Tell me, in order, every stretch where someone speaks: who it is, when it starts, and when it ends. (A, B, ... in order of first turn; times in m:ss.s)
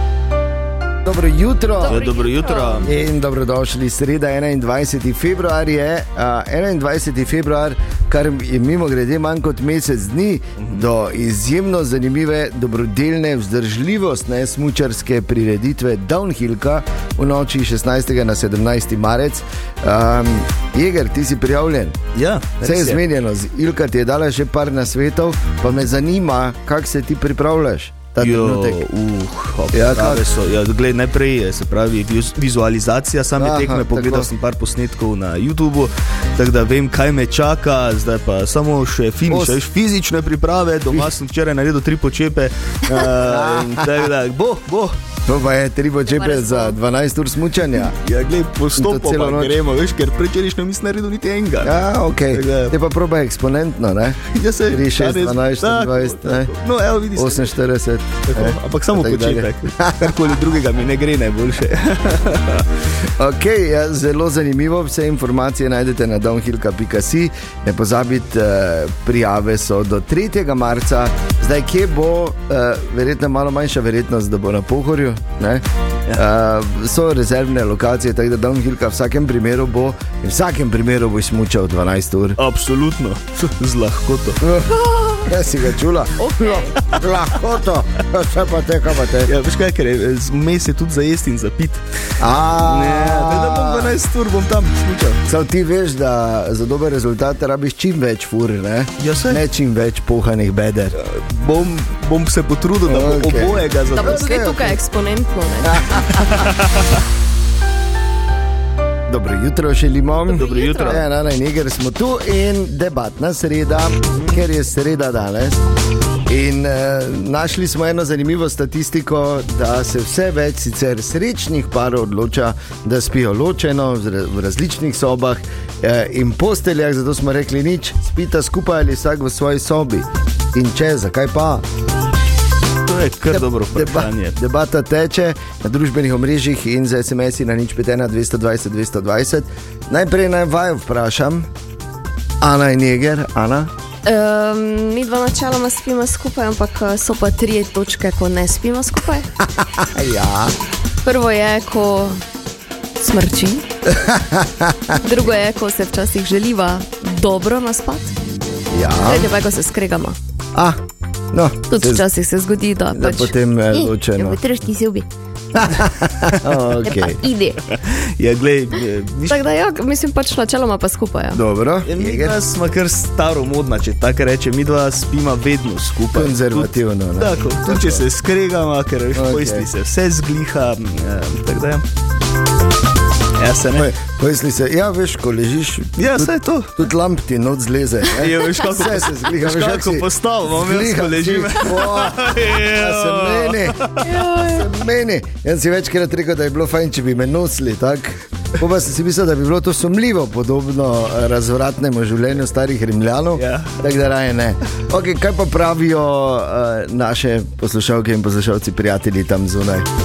0:01.0-0:02.1 A
0:01.8-0:02.9 B
0:01.9-0:02.9 C
0:02.8-0:22.0 A
0:10.6-0:10.8 C
0:22.1-0:23.0 C
0:22.6-0:28.8 A
0:28.2-0:45.0 C
0:29.7-0:30.2 A
0:33.4-0:34.3 A
0:39.3-0:39.6 A
0:43.0-0:43.9 A
0:45.2-0:48.0 A
0:46.1-0:46.8 B
0:48.0-0:51.8 C
0:48.7-0:49.6 A
0:51.6-0:56.5 A
0:52.3-0:52.7 C
0:54.3-0:57.5 C
0:57.1-1:00.2 A
0:58.3-1:02.7 C
1:03.2-1:22.4 A
1:22.4-1:24.4 C
1:24.4-1:29.3 A
1:24.8-1:25.2 B
1:26.2-1:26.8 B
1:29.2-1:31.8 C
1:32.2-1:34.0 A
1:32.6-1:35.2 C
1:35.2-1:41.0 A
1:39.0-1:39.4 C
1:41.0-1:44.3 C
1:42.8-1:44.8 A
1:43.9-1:46.0 B
1:45.6-1:46.4 A
1:49.1-1:55.6 A
1:50.3-1:51.0 B
1:50.3-1:51.0 C
1:56.3-2:11.6 A
2:12.8-2:14.4 C
2:13.3-2:21.5 A
2:22.4-2:23.7 A
2:24.0-2:29.3 B
2:29.6-2:30.5 A
2:31.0-2:32.2 B
2:33.0-2:33.6 B
2:33.9-2:35.0 A
2:35.0-2:38.1 B
2:38.7-2:39.3 A
2:39.0-2:40.2 B
2:41.3-2:42.0 A
2:41.7-2:43.3 B
2:42.9-2:44.4 A
2:44.2-2:45.0 B
2:45.5-2:47.2 A
2:47.0-2:47.6 B
2:47.7-2:49.4 C
2:49.3-2:51.4 B
2:51.3-2:52.4 A
2:51.8-3:01.8 C
2:56.1-2:58.0 A
2:59.1-2:59.7 A
3:03.4-3:03.9 C
3:03.7-3:29.9 A
3:06.0-3:06.7 C
3:08.2-3:14.1 C
3:14.0-3:14.6 B
3:23.4-3:23.7 C